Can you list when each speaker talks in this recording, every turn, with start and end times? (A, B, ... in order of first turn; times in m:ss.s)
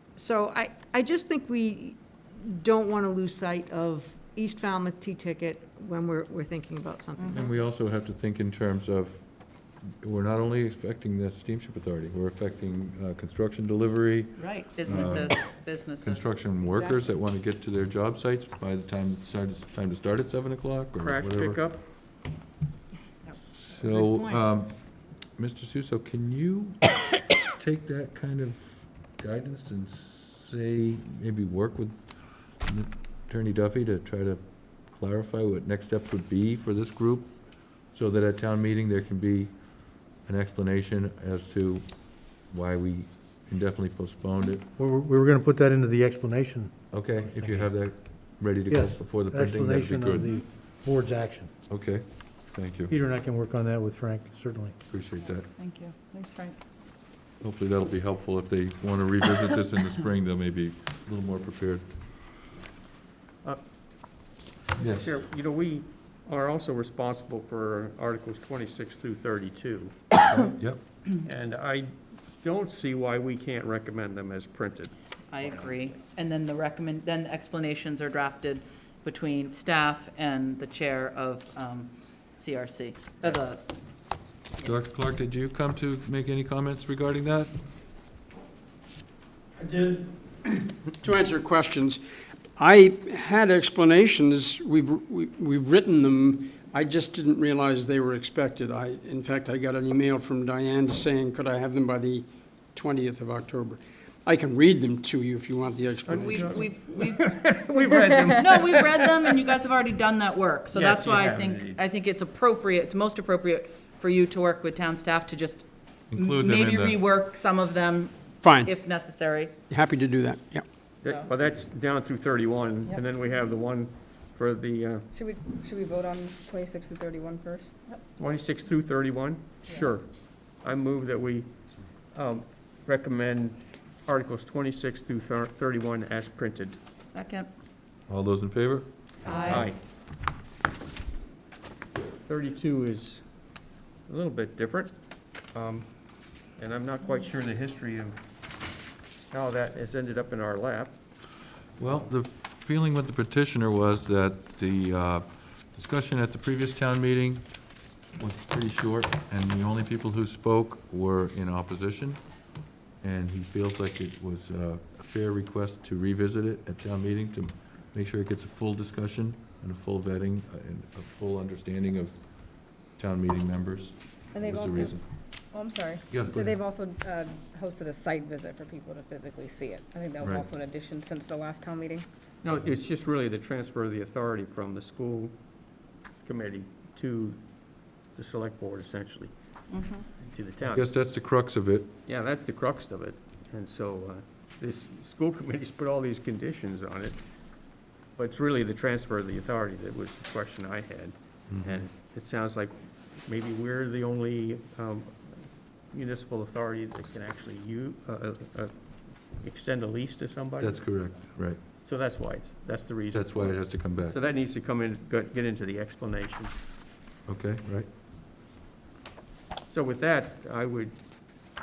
0:00.1-0:07.7 A
0:07.2-0:07.4 B
0:07.3-0:09.2 C
0:10.0-0:21.6 C
0:14.4-0:16.3 B
0:21.0-0:21.8 D
0:23.6-0:24.8 C
0:23.8-0:24.4 A
0:25.4-0:32.0 C
0:32.6-0:37.4 C
0:37.9-0:44.7 C
0:44.8-0:46.7 E
0:46.9-0:50.3 C
0:47.3-0:47.7 E
0:48.7-0:51.5 E
0:51.7-0:52.9 C
0:52.9-0:54.8 E
0:54.9-0:55.5 C
0:55.6-0:56.6 B
0:57.4-1:01.8 C
1:04.8-1:09.9 D
1:04.8-1:05.0 C
1:10.4-1:10.8 C
1:11.2-1:11.9 D
1:12.4-1:16.0 D
1:15.3-1:23.6 B
1:24.6-1:27.5 C
1:29.6-1:32.0 F
1:32.6-1:46.7 F
1:46.1-1:49.4 D
1:46.1-1:47.4 B
1:48.3-1:59.5 B
1:50.7-1:51.8 D
1:56.1-1:57.0 C
1:58.4-1:58.7 F
1:59.7-2:00.6 F
2:01.0-2:01.3 B
2:01.0-2:05.1 D
2:05.1-2:07.8 G
2:08.2-2:10.1 D
2:10.6-2:11.5 D
2:12.1-2:16.8 D
2:17.0-2:17.5 B
2:18.1-2:18.9 C
2:19.2-2:19.7 B
2:19.4-2:19.8 D
2:22.2-2:23.2 D
2:24.1-2:24.9 D
2:25.5-2:25.8 D
2:26.6-2:28.2 D
2:29.3-2:30.9 D
2:31.8-2:37.4 C
2:38.2-2:42.2 C
2:43.0-2:52.1 C
2:52.9-2:55.0 C
2:54.3-2:55.0 G
2:55.5-3:02.0 G
2:56.1-2:56.6 C
3:00.2-3:00.5 C
3:02.4-3:05.3 D
3:06.2-3:07.4 D
3:08.1-3:09.3 D
3:09.7-3:10.0 B
3:10.2-3:10.8 D
3:10.6-3:11.9 C
3:12.0-3:17.2 D
3:18.2-3:28.7 D
3:21.5-3:21.8 C
3:29.4-3:30.8 D
3:30.6-3:31.6 C
3:31.8-3:36.6 D
3:33.1-3:34.2 C
3:37.3-3:37.9 C
3:39.7-3:40.9 D